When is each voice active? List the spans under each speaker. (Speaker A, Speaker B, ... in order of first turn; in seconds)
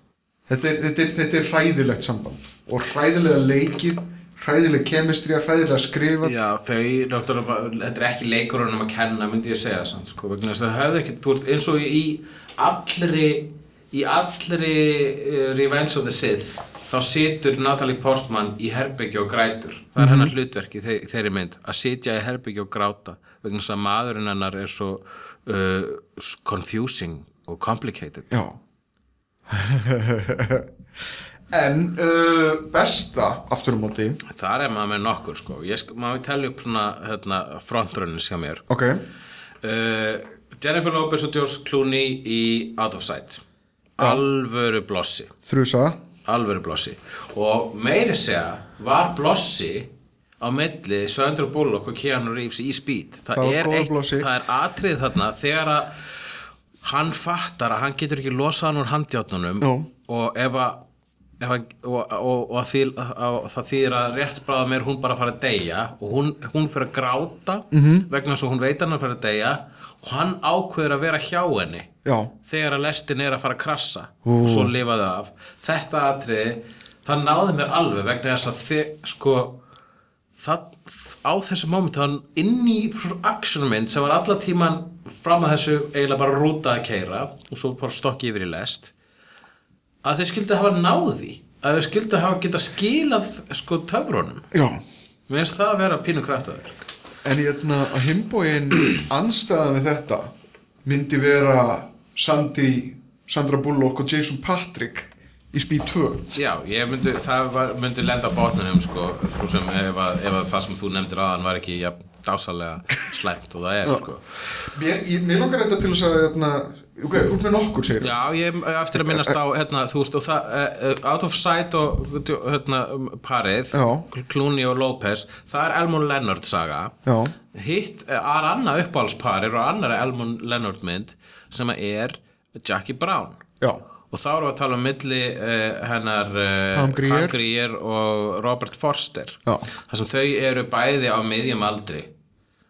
Speaker A: 0.5-6.4, 20.0-20.3, 28.3-28.6, 29.5-30.7, 31.5-34.2, 38.7-39.0, 45.5-46.0, 53.3-54.3, 59.6-59.9, 67.7-68.1, 72.0-72.3, 74.2-74.7, 94.5-94.8, 97.2-100.3, 100.8-106.3, 114.6-118.1, 118.9-119.3, 123.7-124.0, 127.0-127.3, 136.7-137.4
Speaker B: 6.2-28.4, 34.2-38.6, 39.6-43.4, 44.0-45.3, 46.2-55.9, 56.8-60.8, 61.4-71.9, 72.4-79.6, 80.3-88.9, 90.0-94.5, 95.3-96.9, 106.3-114.2, 118.0-126.9, 127.5-133.4, 134.1-142.1